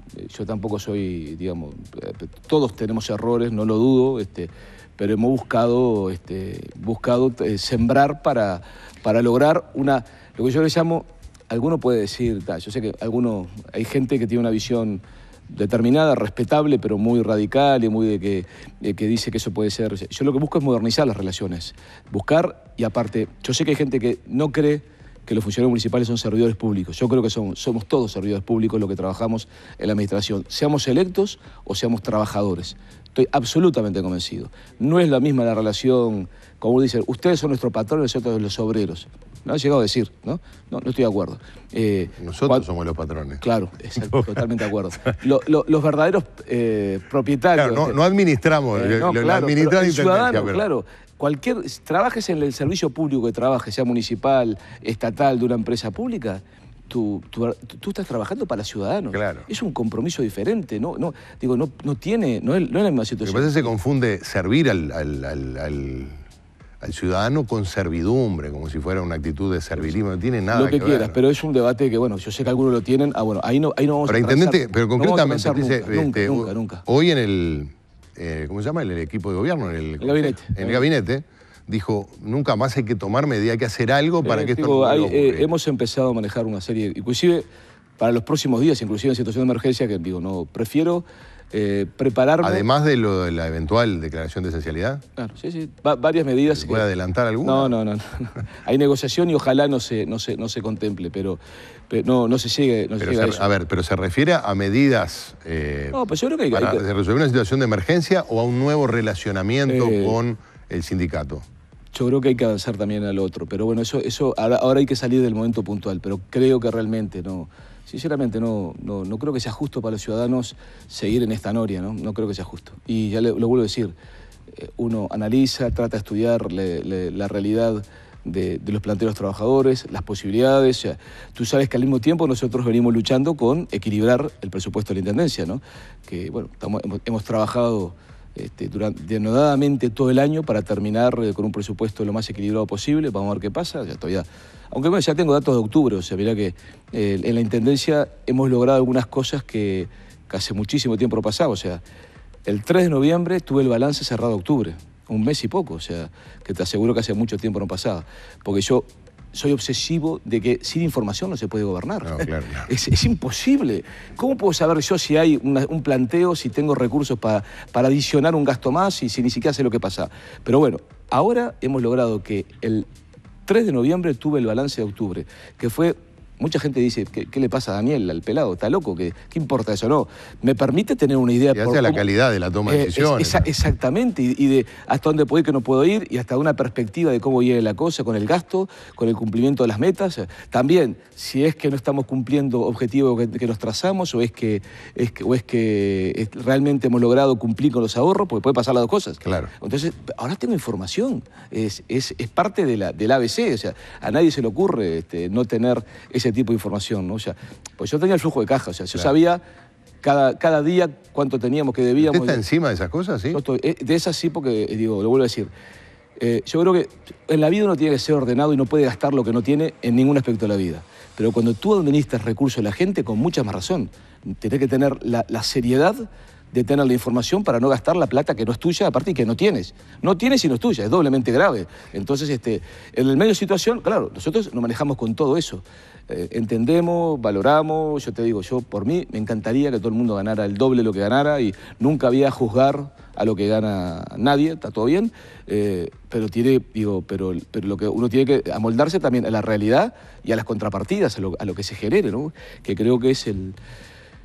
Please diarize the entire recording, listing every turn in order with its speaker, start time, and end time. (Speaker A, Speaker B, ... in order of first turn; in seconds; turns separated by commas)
Speaker A: 0.2-42.7, Speaker B: 42.2-43.4, Speaker A: 43.4-48.0, Speaker B: 47.5-50.6, Speaker A: 48.7-63.7, Speaker B: 59.1-59.5, Speaker B: 63.2-66.2, Speaker B: 66.8-71.2, Speaker A: 70.5-76.8, Speaker B: 74.1-85.5, Speaker A: 80.0-80.8, Speaker A: 84.2-87.5, Speaker A: 88.0-92.7, Speaker B: 92.4-95.0, Speaker A: 95.2-96.9, Speaker B: 96.5-97.7, Speaker A: 97.4-103.5, Speaker B: 103.0-106.0, Speaker A: 105.9-106.8, Speaker B: 106.5-111.4, Speaker A: 109.7-110.2, Speaker A: 111.9-123.9, Speaker A: 124.6-151.8, Speaker A: 152.4-172.8, Speaker B: 162.0-162.7, Speaker A: 173.4-182.1, Speaker B: 181.5-183.5, Speaker A: 182.7-209.4, Speaker B: 199.2-199.5, Speaker A: 210.0-212.4, Speaker B: 212.0-213.4, Speaker A: 213.3-215.5, Speaker A: 216.2-253.6